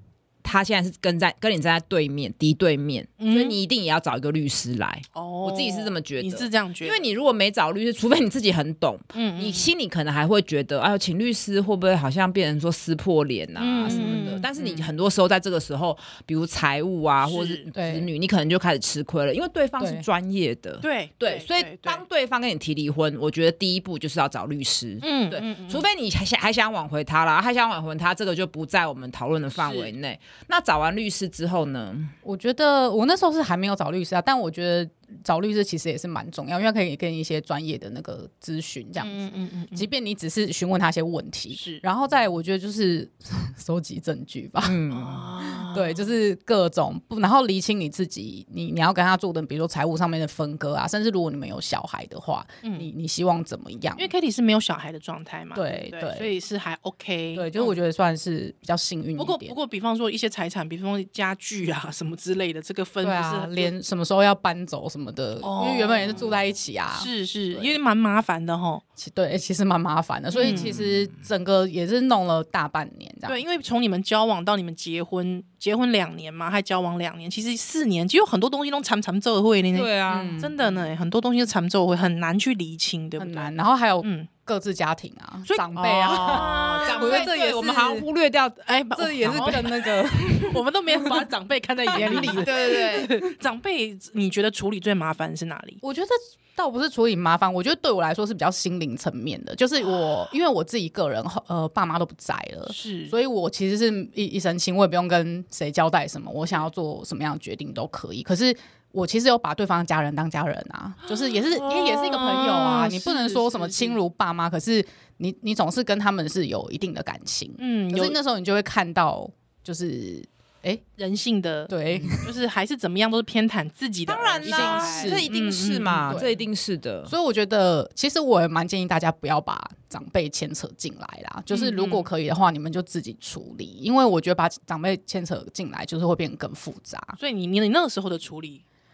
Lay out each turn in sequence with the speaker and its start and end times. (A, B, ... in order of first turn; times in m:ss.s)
0:00.4-0:32.2 A
0:03.2-0:03.6 B
0:05.2-0:07.1 B
0:09.1-0:09.7 B
0:13.6-0:14.9 B
0:13.9-0:14.3 C
0:17.2-0:17.7 B
0:17.7-0:18.1 C
0:19.8-0:20.0 C
0:20.8-0:22.0 B
0:25.0-0:25.9 B
0:29.6-0:29.9 B
0:32.2-0:44.8 C
0:39.0-0:39.9 B
0:41.5-0:41.8 B
0:44.6-0:45.3 A
0:44.9-0:46.1 B
0:45.4-0:54.1 C
0:52.6-0:52.9 B
0:54.0-0:57.8 B
0:55.5-0:56.3 C
0:57.4-0:59.6 C
0:59.2-1:03.7 B
1:03.0-1:07.8 C
1:05.4-1:06.3 B
1:06.9-1:08.8 B
1:09.0-1:13.4 C
1:10.3-1:10.8 B
1:10.5-1:11.1 A
1:13.3-1:24.3 B
1:19.7-1:20.4 A
1:20.1-1:20.6 C
1:23.2-1:28.1 C
1:25.5-1:27.4 B
1:25.8-1:29.7 A
1:28.6-1:29.7 B
1:29.0-1:31.2 C
1:30.2-1:35.8 B
1:31.9-1:33.0 C
1:32.0-1:33.2 A
1:35.8-2:00.8 C
1:39.8-1:40.1 B
1:42.7-1:43.1 B
1:51.1-1:54.0 B
1:57.6-1:58.2 B
2:01.0-2:06.3 B
2:01.7-2:02.3 C
2:04.1-2:07.1 A
2:04.4-2:05.3 C
2:06.1-2:06.4 C
2:07.1-2:17.2 C
2:11.5-2:12.1 B
2:17.2-2:18.6 B